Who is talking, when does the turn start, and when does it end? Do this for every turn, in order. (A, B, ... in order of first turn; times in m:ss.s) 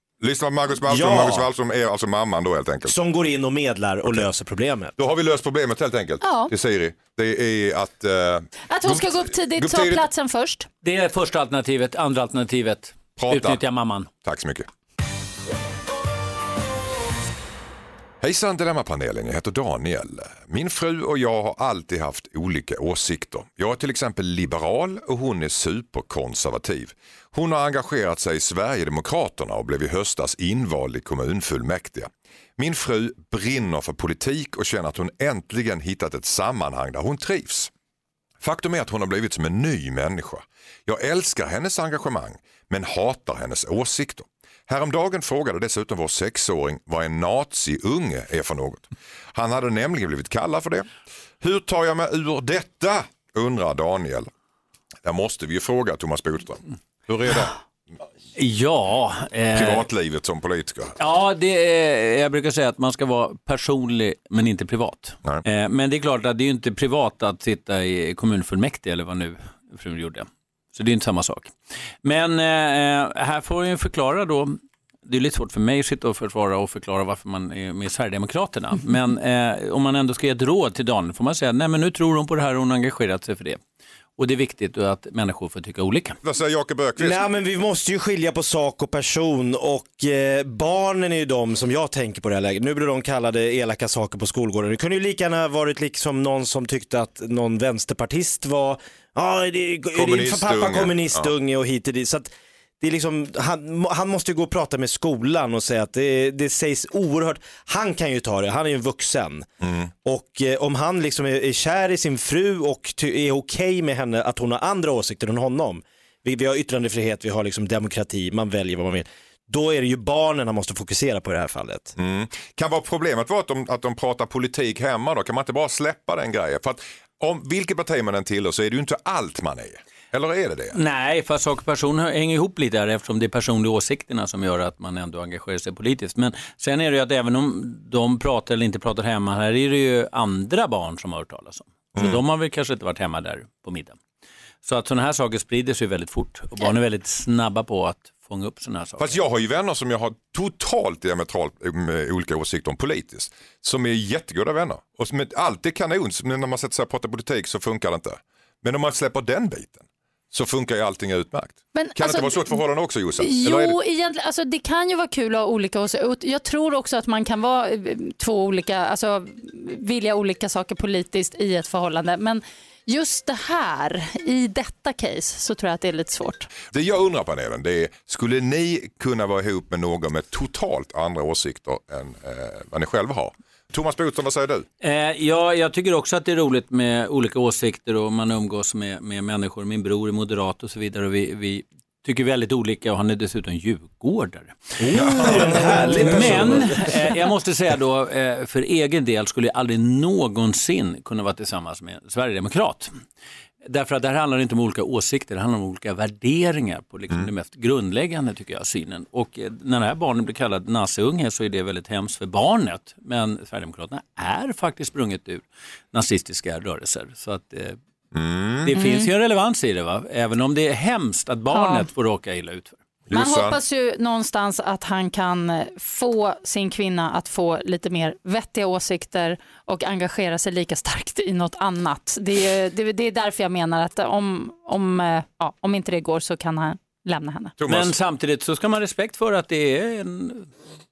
0:00.2-0:02.9 A
0:00.8-0:01.5 B
0:02.8-0:04.9 B
0:05.0-0:10.0 A
0:06.2-0:06.5 C
0:08.7-0:10.7 C
0:10.8-0:14.1 D
0:13.2-0:13.6 A
0:14.2-0:14.7 A
0:18.2-0:37.7 A
0:38.4-0:50.9 A
0:51.4-0:54.3 A
0:55.0-0:57.6 A
0:58.4-0:59.8 D
0:59.5-1:01.0 A
1:01.0-1:23.6 D
1:24.2-1:26.2 D
1:26.2-1:27.2 A
1:27.0-1:49.5 B
1:39.9-1:41.3 A
1:49.6-1:49.9 A
1:50.0-2:01.9 B
2:02.0-2:10.8 A
2:10.7-2:24.0 D
2:24.6-2:29.2 D
2:29.0-2:43.8 A
2:41.7-2:42.6 C
2:43.2-2:56.5 C
2:56.7-3:04.6 A
3:04.8-3:22.9 D
3:14.8-3:17.1 B
3:15.0-3:15.5 A
3:23.6-3:37.8 D
3:38.1-3:38.7 A
3:38.6-3:42.8 D
3:38.7-3:39.1 C
3:41.5-3:41.9 C
3:43.1-3:43.6 A
3:43.1-3:57.5 C
3:57.6-3:57.9 A
3:57.6-4:00.5 D